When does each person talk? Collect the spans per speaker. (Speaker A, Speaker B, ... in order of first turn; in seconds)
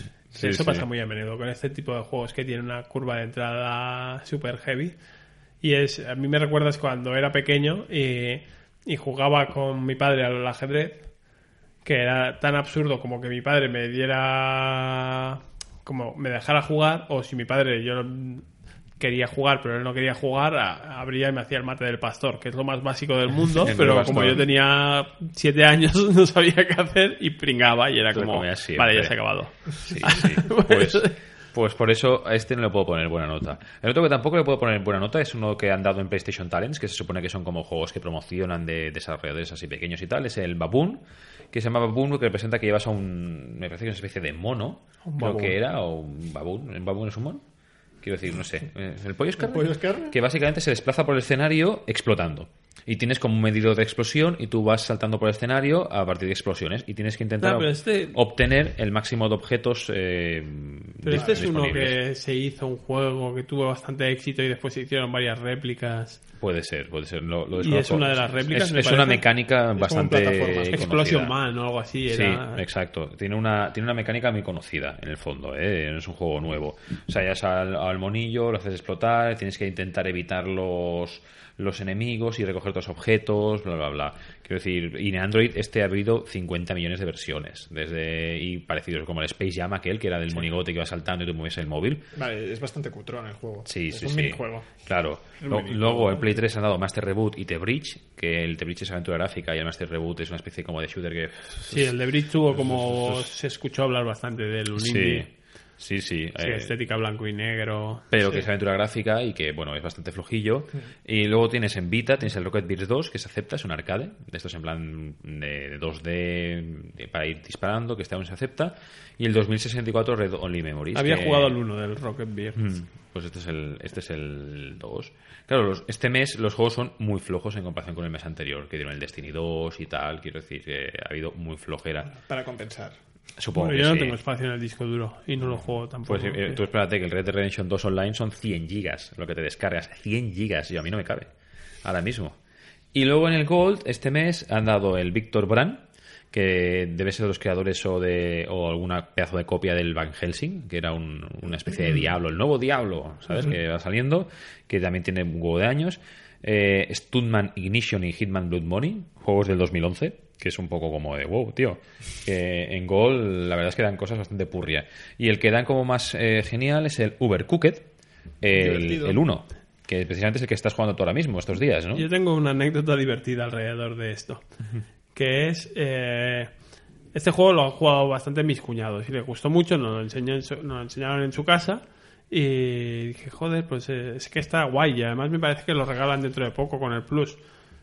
Speaker A: 0.3-0.8, 23.6-24.4, 28.1-41.0, 41.5-47.4, 48.0-62.0, 66.4-71.3, 72.1-92.0, 93.7-102.0, 102.5-103.3, 104.8-106.7, 108.1-121.5, 122.5-132.1, 133.4-134.2, 135.4-141.3, 141.8-142.3, 142.9-167.9, 168.4-172.1
Speaker B: 0.4-5.0, 5.6-11.1, 11.8-18.5, 19.0-31.1, 45.0-45.5, 57.4-58.1, 61.0-66.2, 67.5-69.2, 70.7-72.6, 95.4-96.4, 101.6-105.2, 106.4-108.4, 120.9-122.6, 133.5-136.6, 171.9-174.4, 175.1-176.5, 177.1-187.4
Speaker C: 49.4-50.2, 61.1-61.5, 69.8-70.8, 92.1-94.7, 132.1-133.0, 168.5-169.2